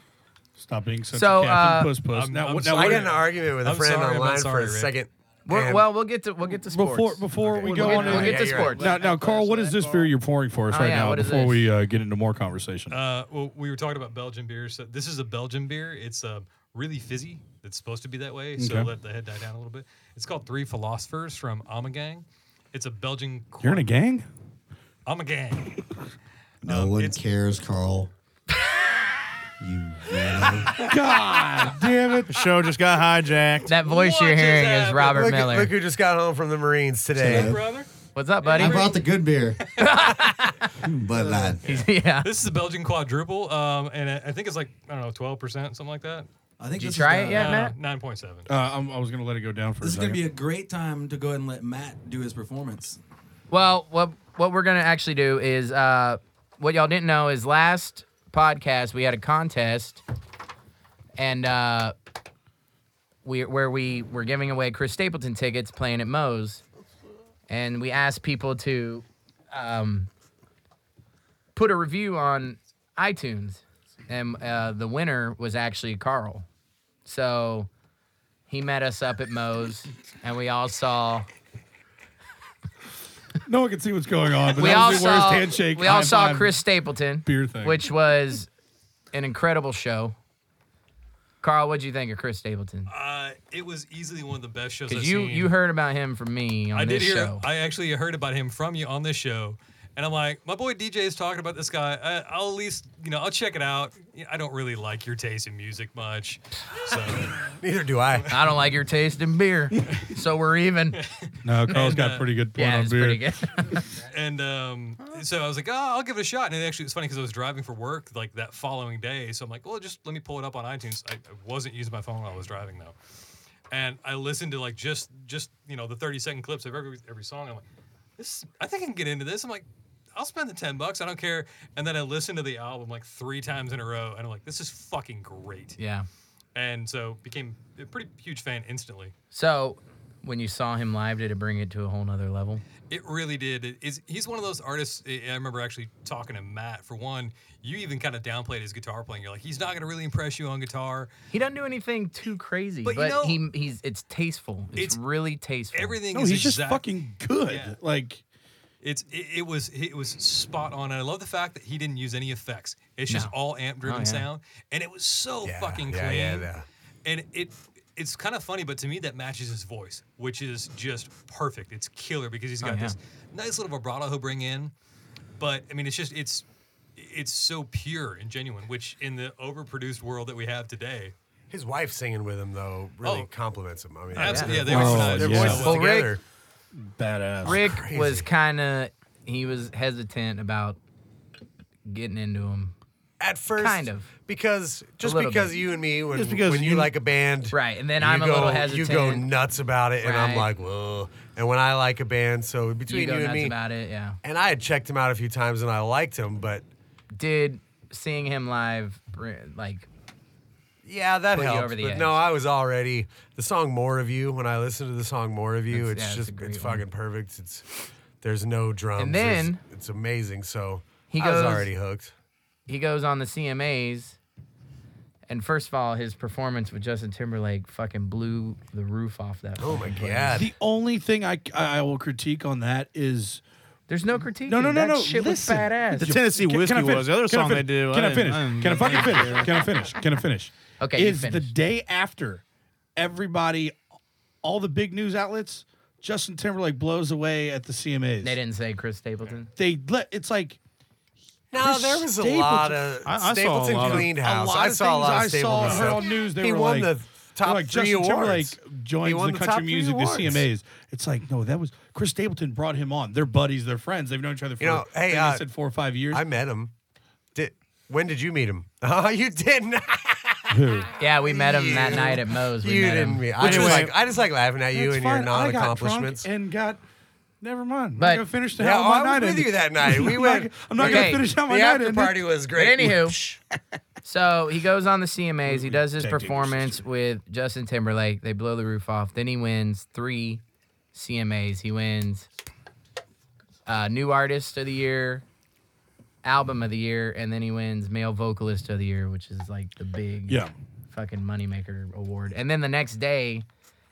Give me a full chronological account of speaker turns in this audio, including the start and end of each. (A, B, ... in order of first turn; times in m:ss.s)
0:00.6-0:03.1 A
0:01.1-0:01.9 B
0:02.1-0:04.9 C
0:02.7-0:05.9 D
0:05.4-0:08.8 B
0:06.6-0:13.0 A
0:07.5-0:10.1 E
0:07.6-0:08.9 D
0:10.7-0:11.7 B
0:12.9-0:23.9 C
0:18.6-0:18.9 A
0:23.6-0:24.3 A
0:25.0-0:25.8 C
0:26.6-0:27.2 C
0:26.6-0:28.1 F
0:29.6-0:30.8 F
0:30.2-0:30.7 G
0:30.8-0:32.4 A
0:32.3-0:33.7 E
0:33.6-0:35.7 B
0:33.7-0:35.3 C
0:35.1-0:37.6 D
0:37.2-0:37.6 F
0:37.3-0:37.9 C
0:38.1-0:38.9 B
0:38.4-0:38.9 C
0:38.5-0:39.6 F
0:39.8-0:40.7 B
0:40.8-0:41.5 A
0:40.9-0:41.6 F
0:41.6-0:46.3 C
0:41.6-0:42.3 B
0:46.6-0:47.6 G
0:46.8-0:47.7 B
0:47.3-0:48.5 C
0:48.5-0:50.2 A
0:49.8-0:53.0 G
0:53.5-1:00.0 B
1:01.2-1:01.9 B
1:03.2-1:06.6 B
1:07.5-1:10.1 B
1:11.5-1:16.5 B
1:17.0-1:17.7 B
1:18.5-1:21.3 B
1:23.4-1:26.6 A
1:24.5-1:28.5 B
1:27.2-1:27.9 A
1:29.1-1:30.2 B
1:31.4-1:32.9 B
1:32.9-1:35.5 C
1:34.9-1:37.4 B
1:36.7-1:47.4 C
1:47.5-1:48.4 D
1:48.3-1:51.0 B
1:51.0-1:52.3 C
1:51.4-1:53.2 A
1:52.5-1:53.9 B
1:54.0-2:03.0 C
2:03.7-2:07.6 C
2:08.2-2:15.8 C
2:15.8-2:16.1 B
2:16.5-2:19.1 C
2:19.3-2:22.6 B
2:22.9-2:31.1 C
2:31.3-2:36.0 B
2:32.8-2:33.4 C
2:35.7-2:36.9 C
2:36.1-2:38.2 A
2:37.4-2:37.8 C
2:38.8-2:46.5 C
2:43.1-2:44.2 B
2:45.4-2:46.6 D
2:47.0-2:54.7 C
2:52.6-2:53.0 B
2:55.4-2:56.4 C
2:57.0-3:01.1 C
3:01.5-3:06.2 D
3:03.0-3:03.3 C
3:04.1-3:05.9 C
3:04.2-3:06.2 B
3:04.6-3:05.8 A
3:06.8-3:07.7 A
3:07.4-3:10.8 B
3:07.4-3:08.3 D
3:11.9-3:12.7 B
3:13.2-3:23.6 D
3:13.6-3:14.1 B
3:15.0-3:15.6 B
3:16.2-3:16.9 E
3:17.5-3:19.3 B
3:20.0-3:20.5 B
3:22.9-3:24.2 B
3:24.2-3:26.6 D
3:27.1-3:29.9 B
3:30.8-3:37.7 D
3:31.3-3:32.2 B
3:35.7-3:36.8 B
3:38.2-3:42.1 D
3:39.0-3:39.6 B
3:41.1-3:41.7 B
3:42.7-3:44.2 B
3:45.3-3:50.4 B
3:49.6-3:50.5 D
3:50.4-3:53.4 A
3:53.9-3:56.1 B
3:54.4-4:02.4 A
3:56.0-3:59.6 E
4:00.8-4:01.5 B
4:03.0-4:03.7 A
4:04.4-4:08.4 A
4:08.2-4:09.5 B
4:09.6-4:10.6 A
4:11.5-4:20.5 D
4:11.6-4:12.9 A
4:13.0-4:14.1 E
4:13.8-4:26.2 A
4:24.6-4:25.5 D
4:26.1-4:26.7 D
4:27.3-4:36.3 D
4:30.5-4:30.9 A
4:31.0-4:33.9 B
4:33.4-4:33.9 E
4:34.7-4:36.8 A
4:37.4-4:42.3 A
4:38.0-4:38.2 B
4:38.6-4:43.1 D
4:40.8-4:41.2 B
4:42.5-4:43.2 B
4:42.8-4:43.4 A
4:44.0-4:50.4 B
4:45.4-4:46.8 A
4:50.9-4:52.3 B
4:53.6-4:55.2 B
4:56.2-5:03.4 B